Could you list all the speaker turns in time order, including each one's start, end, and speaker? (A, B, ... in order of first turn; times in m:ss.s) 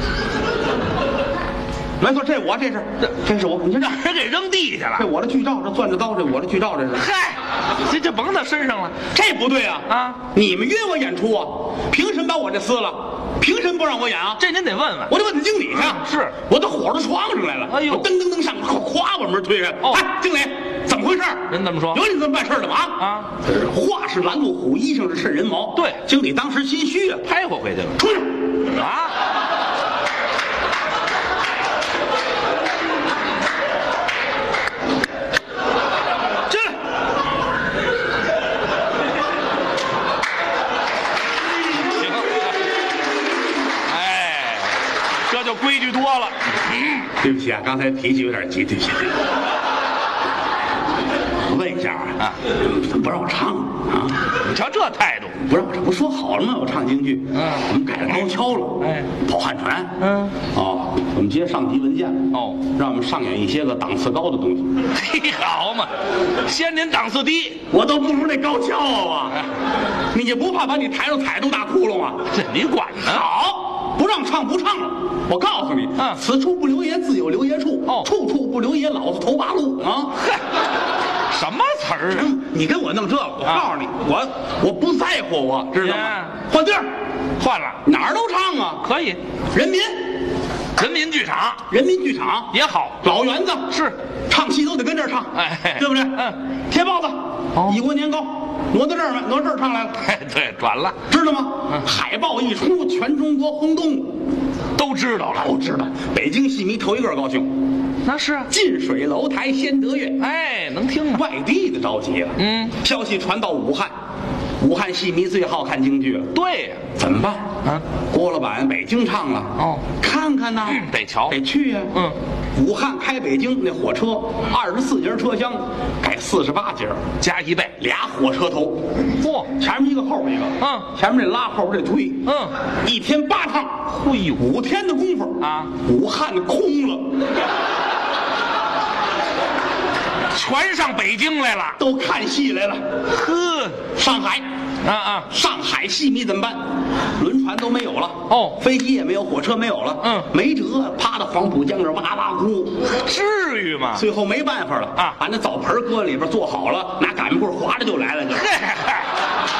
0:02.0-0:04.0 A
0:03.7-0:05.0 B
0:04.9-0:07.1 A
0:07.0-0:09.0 B
0:09.1-0:14.4 A
0:09.9-0:10.2 B
0:14.4-0:15.1 B
0:15.1-0:27.2 A
0:15.8-0:16.4 B
0:17.7-0:18.1 B
0:21.5-0:22.0 B
0:23.0-0:23.3 B
0:27.2-0:28.1 B
0:28.0-0:28.3 A
0:28.6-0:29.1 B
0:41.7-0:42.6 B
0:43.8-0:47.1 B
0:47.2-0:49.1 A
0:51.4-0:54.2 A
0:54.3-0:55.4 B
0:55.4-1:04.7 A
0:57.3-0:57.6 B
0:58.8-0:59.1 B
1:00.0-1:00.3 B
1:02.3-1:02.6 B
1:04.9-1:05.9 B
1:06.4-1:07.6 B
1:07.7-1:09.5 A
1:10.1-1:12.3 A
1:12.3-1:13.3 B
1:13.0-1:20.2 A
1:21.3-1:22.3 B
1:22.1-1:26.9 A
1:25.8-1:26.4 B
1:27.4-1:27.8 B
1:27.8-1:28.8 A
1:28.8-1:29.2 B
1:29.5-1:30.2 A
1:30.8-1:31.7 B
1:31.7-1:40.0 A
1:32.5-1:33.0 B
1:33.7-1:34.0 B
1:35.3-1:36.4 B
1:37.6-1:37.8 B
1:40.0-1:41.0 B
1:41.1-1:44.2 A
1:44.8-1:45.5 B
1:45.3-1:47.5 A
1:48.0-1:48.5 B
1:48.5-1:50.2 A
1:50.2-1:51.2 B
1:51.1-1:53.9 A
1:52.4-1:52.7 B
1:54.6-1:56.3 A
1:56.3-1:56.8 B
1:56.9-1:57.6 A
1:58.1-2:02.0 A
1:59.6-1:59.8 B
2:00.7-2:01.3 B
2:02.5-2:07.0 A
2:07.2-2:07.7 B
2:07.8-2:08.9 A
2:09.2-2:09.5 B
2:09.5-2:17.2 A
2:10.6-2:10.9 B
2:12.2-2:12.5 B
2:13.9-2:14.4 B
2:15.4-2:15.7 B
2:20.3-2:21.8 B
2:21.8-2:22.8 A
2:23.1-2:23.8 B
2:23.9-2:24.5 A
2:24.8-2:25.3 B
2:25.3-2:26.6 A
2:27.2-2:32.9 A
2:28.3-2:28.6 B
2:30.0-2:30.3 B
2:32.9-2:34.0 B
2:33.9-2:38.5 A
2:38.3-2:39.1 B